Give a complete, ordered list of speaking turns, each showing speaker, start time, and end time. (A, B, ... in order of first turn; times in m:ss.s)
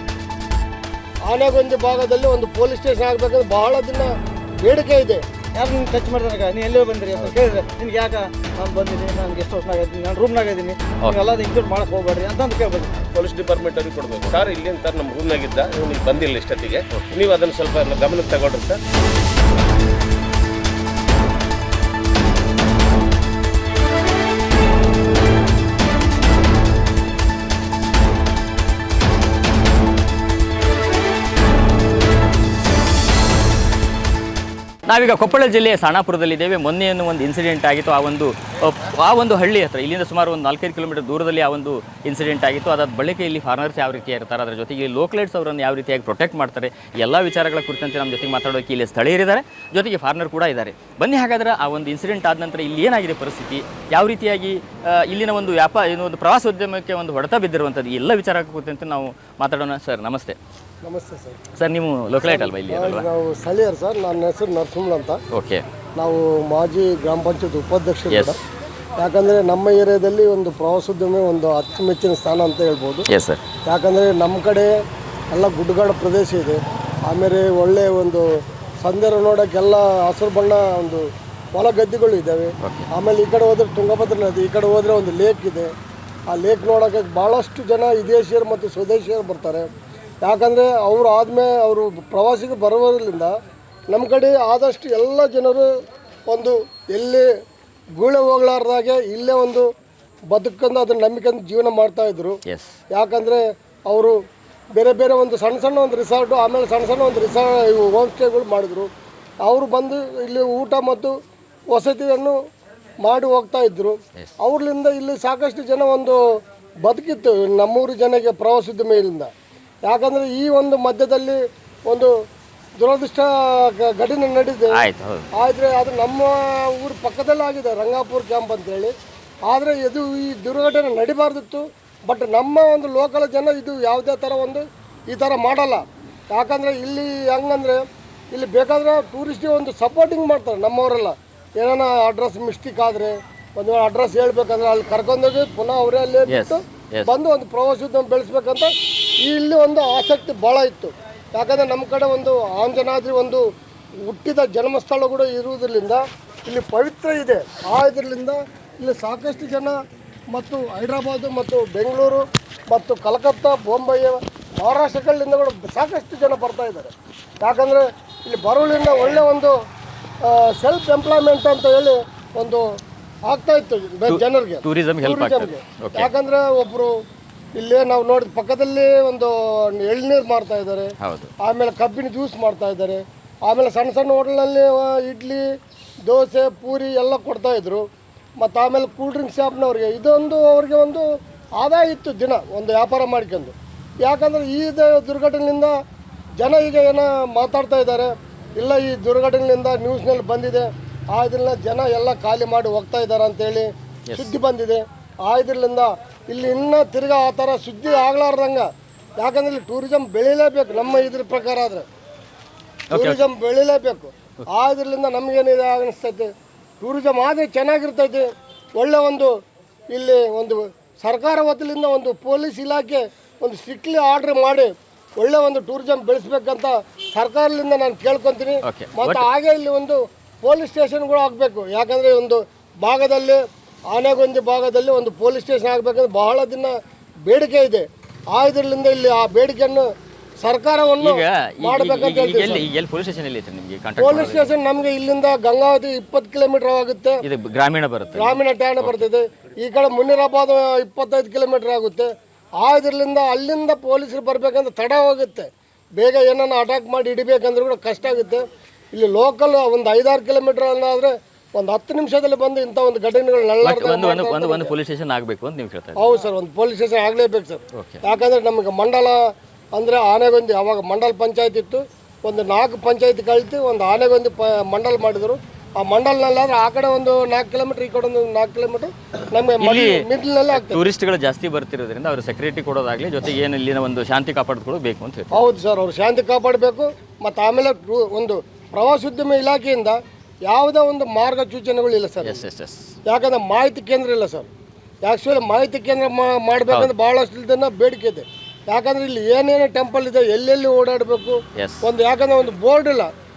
0:01.3-0:05.2 A
0:05.5-0:12.9 B
0:13.1-0:18.8 C
0:34.9-1:00.4 D
1:00.8-1:01.4 A
1:01.6-1:03.0 D
1:02.2-1:05.2 A
1:05.3-1:05.6 D
1:06.0-1:08.4 A
1:08.1-1:08.4 D
1:09.0-1:13.1 A
1:13.1-1:13.4 D
1:13.7-1:14.7 A
1:15.3-1:18.2 A
1:18.8-1:21.0 A
1:21.5-1:25.7 A
1:22.6-1:22.9 D
1:26.3-1:29.7 A
1:30.2-1:33.3 A
1:33.9-1:35.7 A
1:36.3-1:37.2 A
1:38.0-1:39.7 A
1:40.3-1:42.4 A
1:42.4-1:42.8 D
1:42.9-1:44.2 A
1:44.8-1:48.9 A
1:49.4-1:51.1 A
1:51.7-1:52.4 A
1:53.0-1:56.2 A
1:56.8-1:59.3 A
1:59.8-2:02.1 A
2:02.8-2:04.8 A
2:04.7-2:05.3 D
2:05.4-2:08.9 A
2:09.5-2:28.7 A
2:26.3-2:27.1 D
2:29.2-2:33.4 A
2:34.0-2:39.8 A
2:40.3-2:49.5 A
2:50.2-2:52.6 A
2:53.3-2:56.9 A
2:54.1-2:56.1 D
2:57.6-3:00.9 A
3:01.0-3:01.3 D
3:01.4-3:05.4 A
3:06.1-3:07.8 A
3:08.4-3:11.0 A
3:11.6-3:15.7 A
3:16.4-3:28.7 A
3:24.1-3:24.3 D
3:29.2-3:31.8 A
3:32.9-3:33.2 D
3:32.9-3:38.2 A
3:38.8-3:39.3 A
3:39.9-3:53.4 A
3:48.6-3:49.2 D
3:53.9-3:56.7 A
3:57.2-3:59.9 A
4:00.4-4:02.6 A
4:01.0-4:04.5 D
4:04.0-4:07.2 A
4:07.2-4:09.0 D
4:08.2-4:12.1 A
4:12.6-4:15.5 A
4:16.0-4:24.7 A
4:23.6-4:26.0 D
4:26.0-4:29.2 A
4:27.7-4:28.0 D
4:29.8-4:40.8 A
4:39.6-4:45.4 D
4:45.3-4:50.0 A
4:50.5-4:52.4 A
4:52.2-4:52.9 D
4:53.1-4:54.5 A
4:55.0-5:03.1 A
5:01.6-5:01.9 D